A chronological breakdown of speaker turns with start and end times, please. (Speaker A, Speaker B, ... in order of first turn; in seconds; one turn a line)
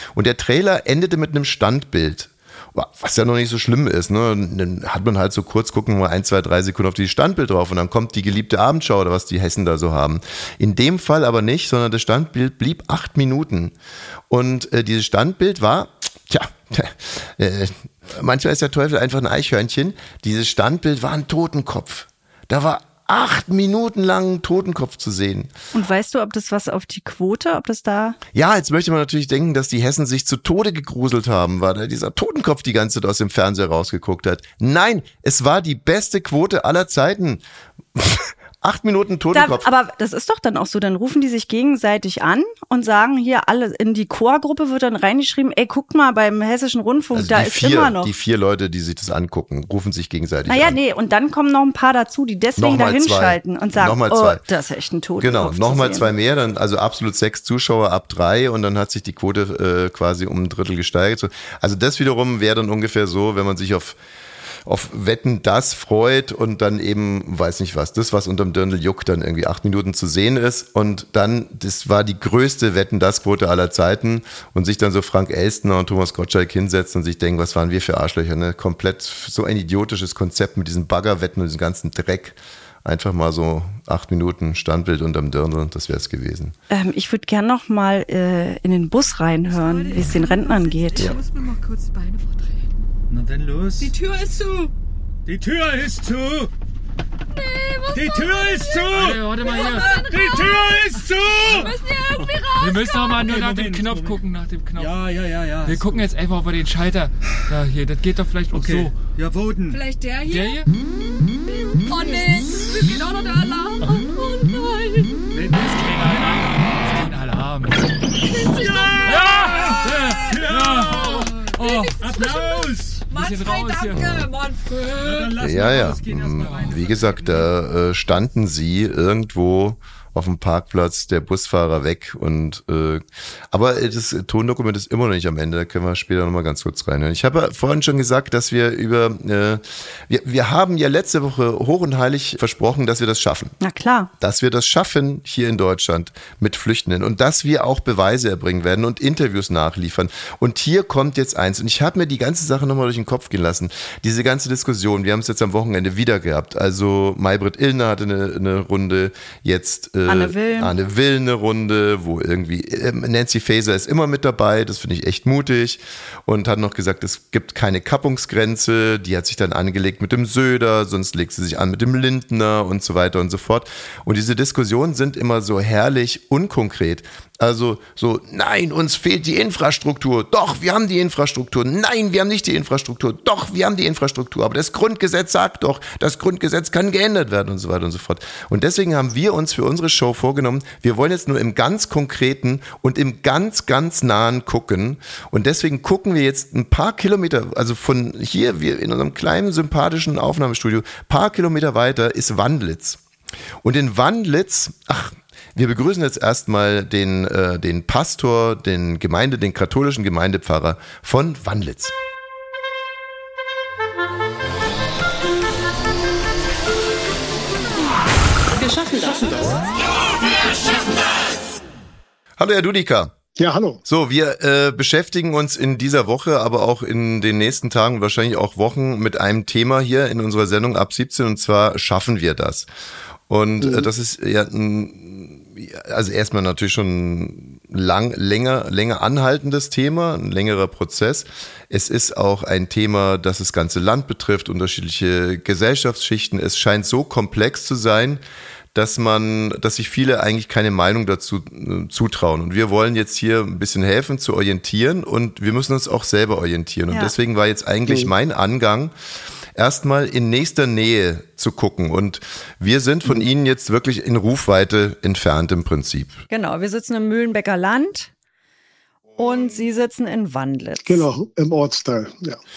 Speaker A: 0.1-13.8
Speaker A: 14.3-25.5
Speaker B: 25.7-28.2
Speaker A: 28.3-37.4
Speaker A: 38.0-39.7
Speaker B: 39.3-48.1
Speaker A: 47.1-50.8
Speaker B: 50.5-56.1
Speaker A: 52.6-54.4
Speaker A: 55.2-64.0
Speaker A: 64.7-86.5
Speaker B: 86.7-91.1
Speaker C: 89.4-92.9
Speaker D: 93.1-93.9
Speaker C: 93.8-94.7
Speaker D: 95.3-96.5
Speaker C: 97.3-103.2
Speaker D: 97.9-102.2
Speaker E: 98.9-100.0
Speaker E: 102.5-105.0
Speaker D: 103.2-104.2
Speaker D: 104.8-106.1
Speaker E: 105.7-109.0
Speaker D: 108.5-109.8
Speaker C: 109.7-110.6
Speaker E: 110.3-110.7
Speaker C: 111.5-115.3
Speaker D: 115.3-116.7
Speaker E: 115.5-118.0
Speaker C: 118.2-125.4
Speaker D: 118.5-123.1
Speaker E: 119.1-121.2
Speaker E: 123.1-124.1
Speaker A: 123.9-124.3
Speaker D: 125.0-127.5
Speaker A: 125.4-143.6
Speaker E: 126.4-126.8
Speaker B: 143.6-144.1
Speaker A: 144.2-203.0
Speaker B: 160.1-160.7
Speaker A: 203.6-211.9
Speaker A: 222.4-223.1
Speaker F: 223.4-223.8
Speaker A: 223.8-232.7
Speaker A: 233.3-248.2
Speaker F: 233.6-233.9
Speaker A: 248.7-258.9
Speaker A: 259.6-266.2
Speaker B: 266.3-268.1
Speaker B: 269.2-271.1
Speaker F: 270.9-272.4